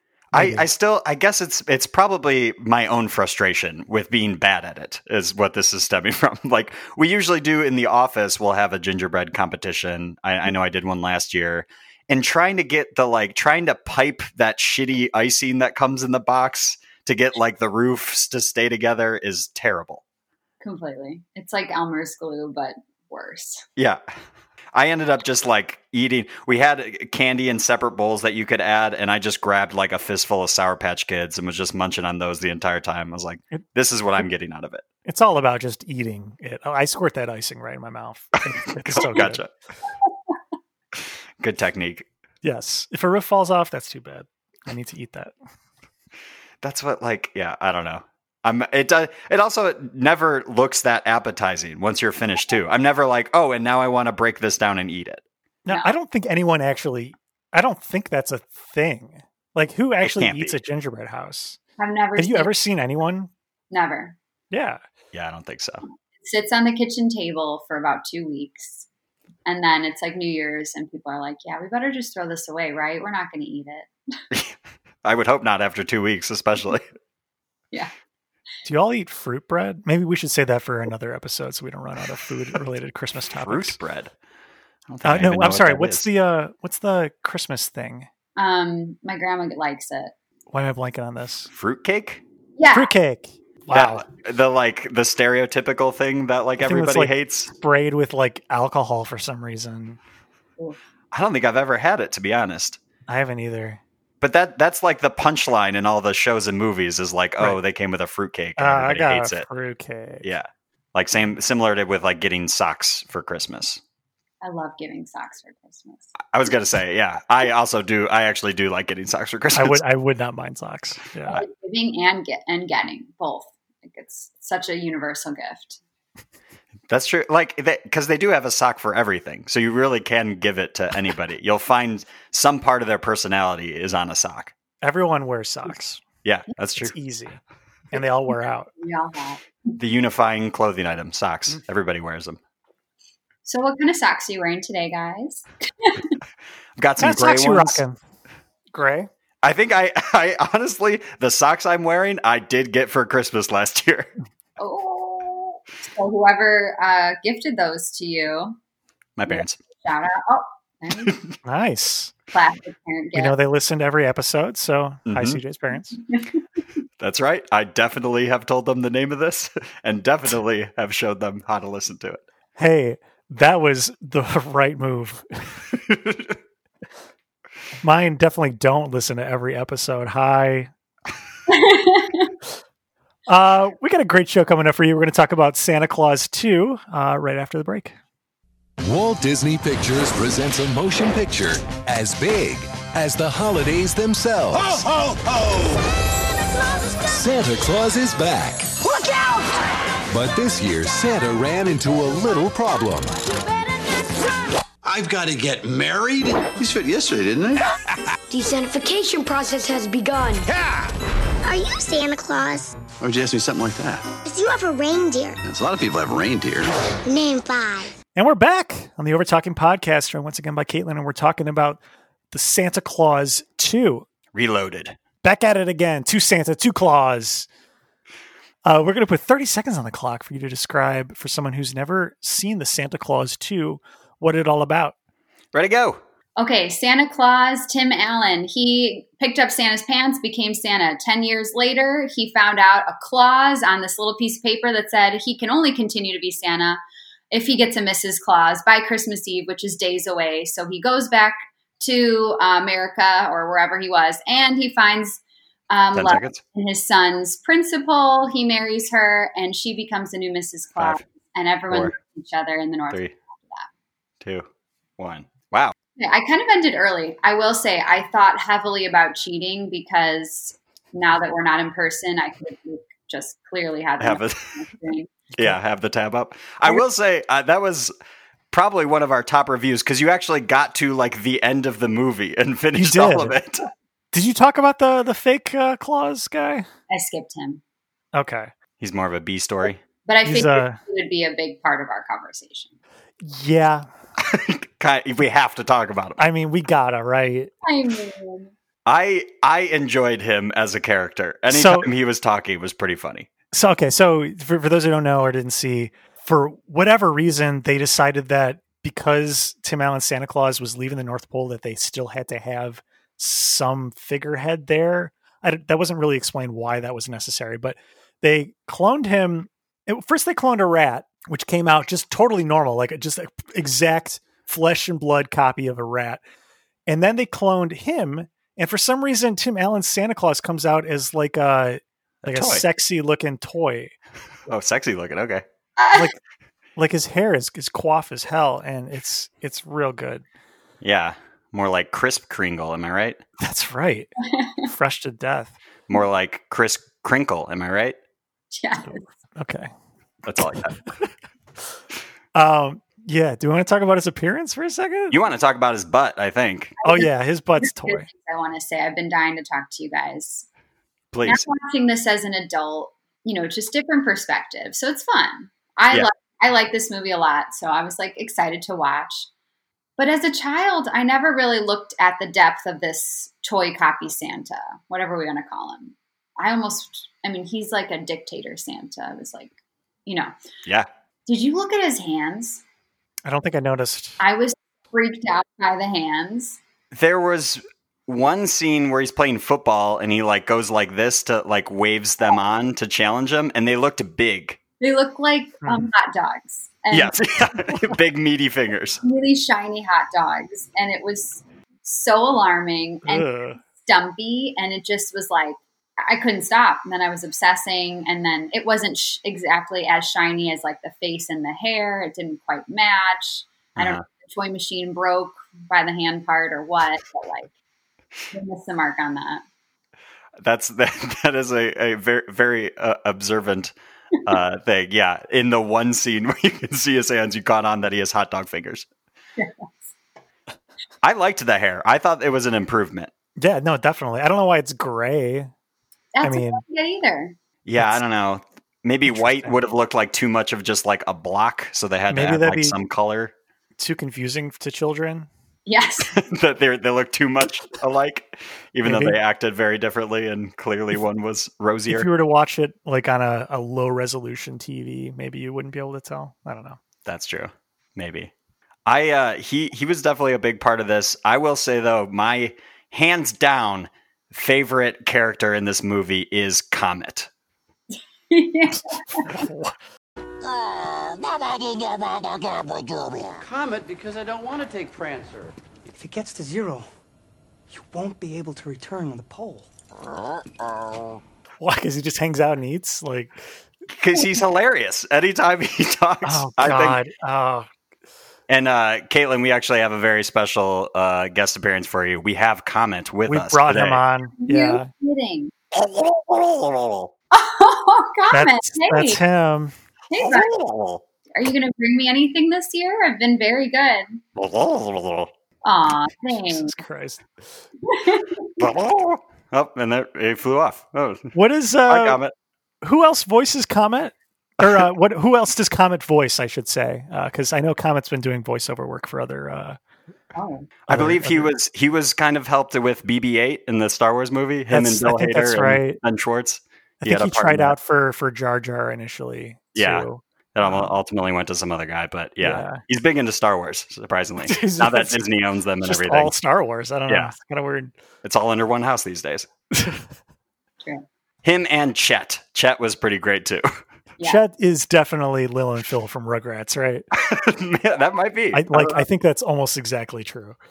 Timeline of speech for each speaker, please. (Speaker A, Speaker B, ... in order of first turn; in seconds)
Speaker A: 0.3-20.0, 23.8-24.0, 24.7-34.8, 38.7-39.5, 41.4-42.0, 46.6-55.2, 60.0-60.5, 65.1-65.8, 74.3-76.9, 83.3-84.1, 84.9-86.1, 91.5-92.2, 93.7-97.5, 101.1-102.8, 104.2-109.5, 110.2-113.8, 116.3-119.8, 126.9-134.5, 136.2-136.9, 139.8-142.4, 146.8-147.8, 149.4-154.1, 159.2-159.6, 161.0-161.3, 165.1-165.4, 167.0-172.2, 175.8-176.3, 224.3-225.0, 235.5-236.0, 255.9-256.4, 265.0-265.7, 274.0-274.6, 275.3-277.9, 278.5-283.7, 288.8-289.8, 294.2-296.2, 298.9-303.3, 332.2-332.6, 334.5-335.4, 340.8-343.2, 345.9-347.9, 350.2-350.8, 355.1-356.8, 361.1-361.4, 386.9-394.6, 396.9-399.0, 413.8-414.0, 420.4-423.7, 424.2-428.9, 431.0-433.1, 437.6-443.3, 446.1-452.1, 457.0-458.3, 458.9-467.3, 483.9-487.0, 488.5-494.0, 495.7-497.1, 500.2-501.0, 504.4-505.3, 508.6-511.3, 511.9-512.3, 520.9-527.8, 529.7-536.3, 537.1-537.3, 538.2-539.5, 541.4-543.8, 547.1-549.0
Speaker B: 0.3-0.6, 35.0-39.4, 42.4-45.3, 55.6-61.6, 62.1-63.3, 64.5-64.8, 78.6-83.8, 85.0-88.1, 90.5-91.5, 92.7-94.0, 96.6-100.0, 103.1-103.8, 108.6-110.3, 119.5-121.4, 134.8-136.0, 136.8-137.4, 137.9-138.7, 147.0-148.0, 148.7-149.1, 161.4-162.1, 163.1-166.0, 172.6-175.6, 177.8-180.7, 183.3-187.9, 218.1-221.8, 222.3-224.1, 225.2-227.5, 228.6-234.9, 282.7-283.4, 284.1-286.7, 288.1-288.5, 290.2-290.8, 293.2-293.9, 296.2-297.5, 301.5-301.9, 303.5-326.2, 326.9-333.9, 336.8-340.2, 343.4-345.6, 348.9-349.7, 350.4-350.9, 352.3-355.2, 356.8-358.1, 383.2-384.2, 395.6-395.9, 403.0-403.6, 433.4-435.5, 436.2-436.6, 437.8-438.0, 439.1-439.6, 442.1-442.8, 443.8-445.3, 448.8-449.2, 451.9-456.8, 469.2-469.7, 481.6-483.4, 486.2-487.7, 493.3-494.9, 498.3-499.7, 506.3-507.3, 511.3-512.2, 512.8-519.8, 520.9-521.5, 524.7-526.0, 527.0-530.9, 532.4-532.8, 534.4-535.2, 535.8-537.9, 539.7-540.0, 544.2-547.1, 548.5-550.6
Speaker C: 20.6-23.6, 61.8-62.5, 63.7-64.1, 66.2-68.8, 69.5-73.9, 88.4-90.1, 92.6-92.9, 114.4-116.1, 121.3-125.8, 138.8-139.8, 143.4-146.2, 154.6-158.6, 159.3-161.2, 162.3-163.3, 181.5-182.3, 236.4-246.8, 247.3-263.7, 266.0-275.1, 286.9-287.6, 290.1-292.7, 297.6-298.5, 335.8-336.1, 344.2-344.7, 348.5-349.0, 356.8-357.1, 357.6-360.5, 361.2-369.3, 370.0-379.5, 380.1-380.3, 381.3-382.6, 384.2-386.6, 394.8-397.2, 399.0-417.5, 418.3-419.4, 429.4-429.7, 436.1-437.4, 445.7-446.1, 468.3-469.3, 494.4-495.5, 497.3-499.2, 500.1-500.6, 501.3-504.2, 505.6-506.7, 507.9-508.5, 520.3-520.7
Speaker D: 188.8-194.8, 197.0-198.8, 200.1-203.2
Speaker E: 194.6-195.8, 204.8-208.0, 210.5-210.9, 213.0-214.1, 215.4-216.8
Speaker F: 198.8-199.6, 208.3-210.5
Speaker G: 211.4-212.7, 214.2-215.4, 217.0-217.9
Speaker H: 473.3-475.6
Speaker I: 475.9-476.9, 477.7-479.7